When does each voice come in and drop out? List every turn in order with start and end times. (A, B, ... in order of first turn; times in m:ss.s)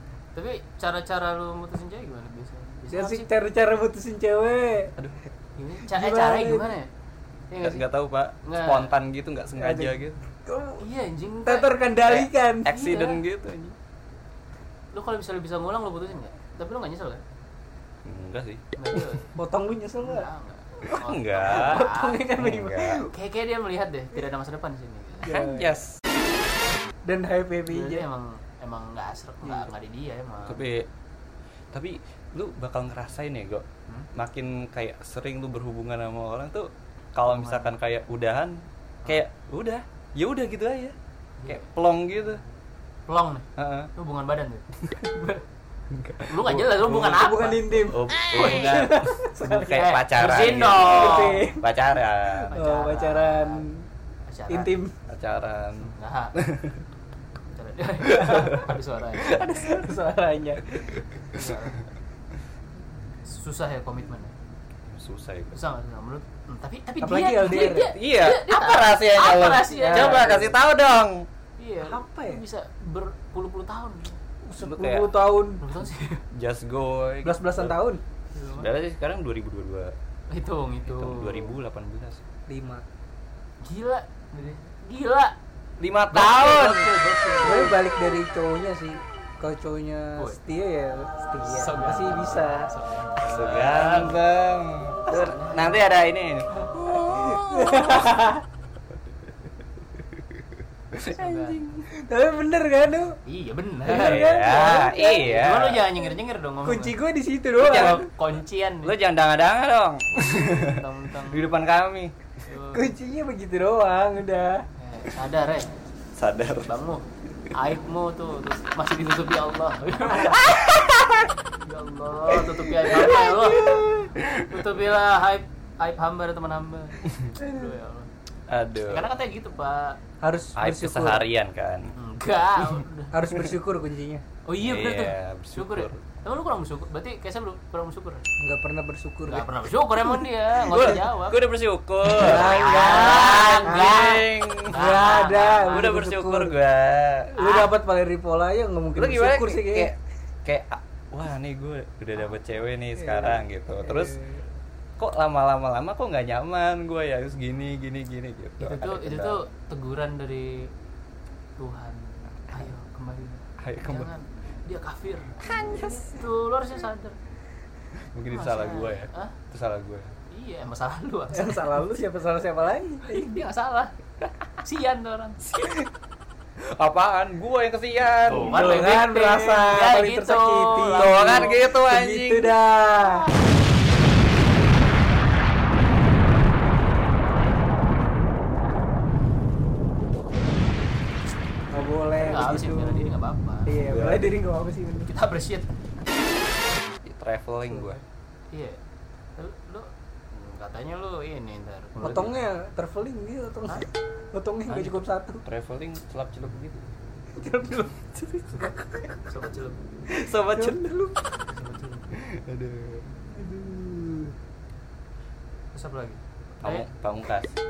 0:00.3-0:03.3 A
0:02.9-0:04.9 B
0:05.6-0:06.9 A
0:05.9-0:06.7 B
0:07.5-0:07.8 A
0:07.6-0:10.2 C
0:08.4-0:08.9 A
0:09.6-0:09.9 B
0:10.4-0:10.8 B
0:10.8-0:11.8 A
0:11.4-0:12.7 B
0:12.0-0:13.8 C
0:12.7-0:13.2 A
0:14.9-0:17.2 A
0:18.0-0:18.6 C
0:18.8-0:19.4 A
0:19.4-0:20.2 B
0:20.0-0:22.3 A
0:20.9-0:23.0 C
0:21.4-0:23.1 B
0:23.1-0:25.3 A
0:25.2-0:25.8 B
0:25.2-0:26.0 C
0:27.0-0:28.0 B
0:27.7-0:30.6 A
0:30.4-0:30.9 C
0:31.7-0:40.9 C
0:37.3-0:37.7 A
0:41.4-0:41.6 A
0:41.4-0:42.4 C
0:43.1-0:45.4 A
0:43.6-0:43.9 C
0:45.9-0:47.2 C
0:46.3-0:48.7 A
0:46.9-0:49.9 B
0:47.8-0:52.5 C
0:49.7-0:51.4 A
0:50.9-0:51.6 B
0:52.5-0:53.6 A
0:52.5-0:53.8 B
0:54.3-0:54.7 A
0:54.5-0:54.9 B
0:55.1-0:56.8 C
0:55.8-0:56.3 A
0:57.5-0:59.4 A
0:58.1-0:59.7 C
0:58.1-0:58.6 B
0:59.2-1:00.9 B
1:00.8-1:01.4 C
1:01.3-1:01.9 A
1:03.2-1:04.3 A
1:04.8-1:05.6 C
1:05.5-1:10.4 A
1:07.0-1:07.9 B
1:07.6-1:11.3 C
1:09.7-1:10.5 B
1:11.6-1:14.2 A
1:11.8-1:12.4 B
1:14.4-1:15.6 B
1:14.6-1:15.1 C
1:15.6-1:16.2 A
1:16.3-1:17.8 C
1:17.2-1:18.0 B
1:18.3-1:18.7 A
1:18.5-1:19.9 C
1:20.3-1:21.5 A
1:20.9-1:22.2 C
1:22.5-1:22.8 B
1:23.6-1:25.3 A
1:25.8-1:26.9 C
1:26.1-1:27.8 A
1:27.4-1:32.7 B
1:31.4-1:34.2 A
1:33.2-1:38.2 C
1:35.1-1:35.8 A
1:37.1-1:38.4 B
1:40.9-1:41.8 C
1:41.1-1:41.7 A
1:41.9-1:43.2 B
1:43.2-1:44.2 A
1:43.8-1:45.4 B
1:43.9-1:45.9 C
1:45.0-1:47.0 A
1:46.6-1:48.0 B
1:47.6-1:49.0 A
1:47.6-1:48.1 C
1:48.8-1:52.1 C
1:50.1-1:51.5 A
1:52.4-1:52.9 A
1:52.7-1:54.6 B
1:54.8-1:55.7 A
1:56.1-1:56.7 C
1:56.7-2:00.6 A
2:00.2-2:01.2 C
2:01.6-2:03.9 A
2:02.8-2:04.6 C
2:03.0-2:04.0 B
2:04.4-2:08.1 A
2:08.5-2:09.1 C
2:08.8-2:10.0 A
2:10.2-2:11.2 B
2:10.6-2:11.9 C
2:12.0-2:13.1 A
2:13.1-2:14.2 B
2:14.4-2:18.2 A
2:14.6-2:16.0 C
2:18.4-2:19.5 B
2:19.3-2:21.4 A
2:20.6-2:24.8 C
2:22.1-2:24.2 B
2:22.2-2:25.9 A
2:24.7-2:26.5 B
2:25.7-2:27.3 C
2:27.3-2:29.9 B
2:27.4-2:27.7 A
2:29.0-2:34.2 C
2:33.0-2:34.4 B
2:35.0-2:39.4 C
2:38.6-2:40.7 A
2:41.6-2:47.1 A
2:43.6-2:44.1 C
2:45.4-2:46.2 C
2:48.1-2:50.1 C
2:48.3-2:49.4 A
2:50.3-2:51.8 A
2:51.3-2:53.3 B
2:53.1-2:53.9 A
2:54.6-2:55.5 A
2:56.6-2:58.7 C
2:58.3-3:01.6 A
2:58.4-3:03.3 B
3:00.9-3:02.5 C
3:11.7-3:13.1 B
3:12.2-3:13.8 A
3:13.6-3:15.1 B
3:13.8-3:14.3 C
3:15.1-3:15.7 A
3:17.0-3:18.0 C
3:18.5-3:18.8 A
3:19.4-3:22.3 A
3:22.0-3:25.4 B
3:24.7-3:26.9 C
3:27.4-3:29.2 B
3:29.3-3:29.8 A
3:30.1-3:31.3 B
3:30.2-3:30.9 C
3:31.5-3:32.0 A
3:32.1-3:33.1 C
3:33.3-3:34.3 B
3:35.7-3:36.8 A
3:36.6-3:37.5 C